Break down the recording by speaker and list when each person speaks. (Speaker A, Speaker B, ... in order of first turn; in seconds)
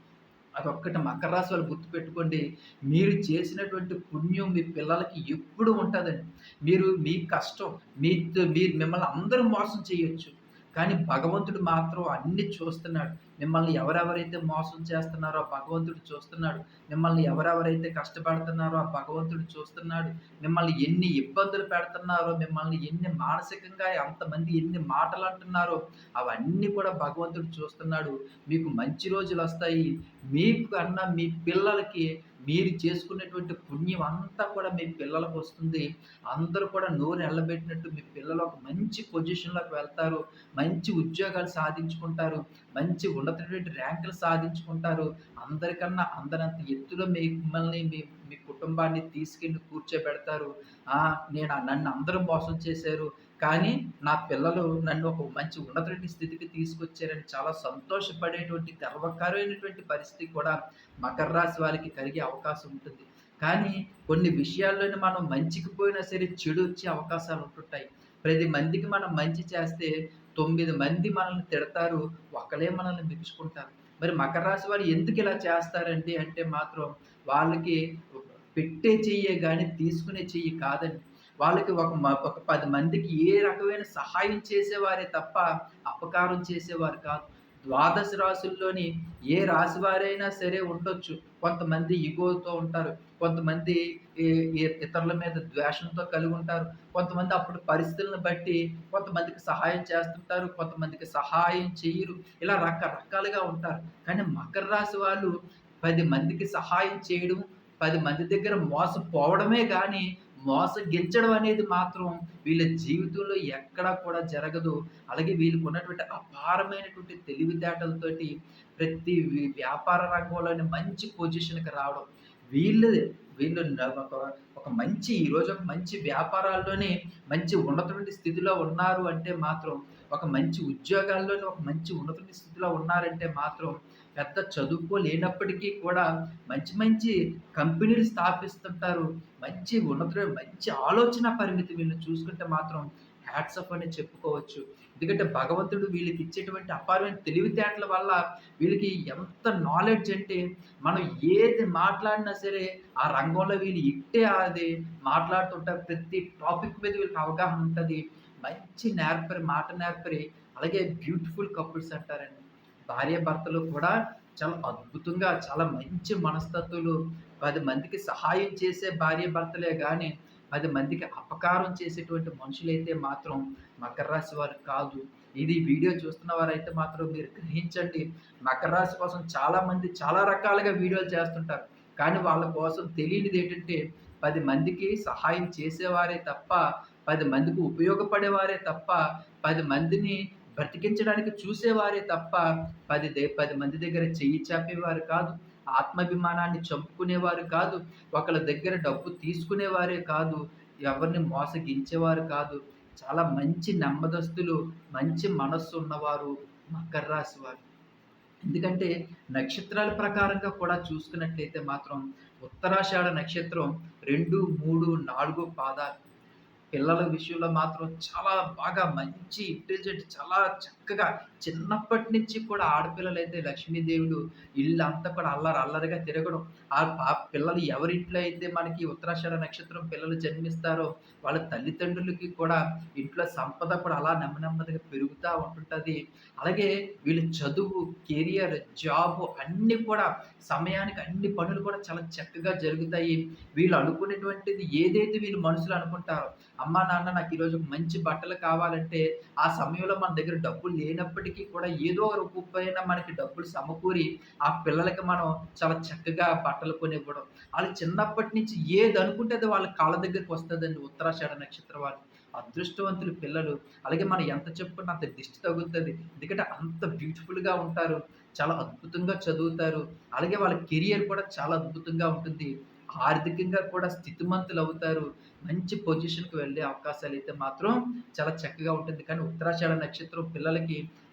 Speaker A: 0.6-207.6, 208.4-216.0, 216.7-280.8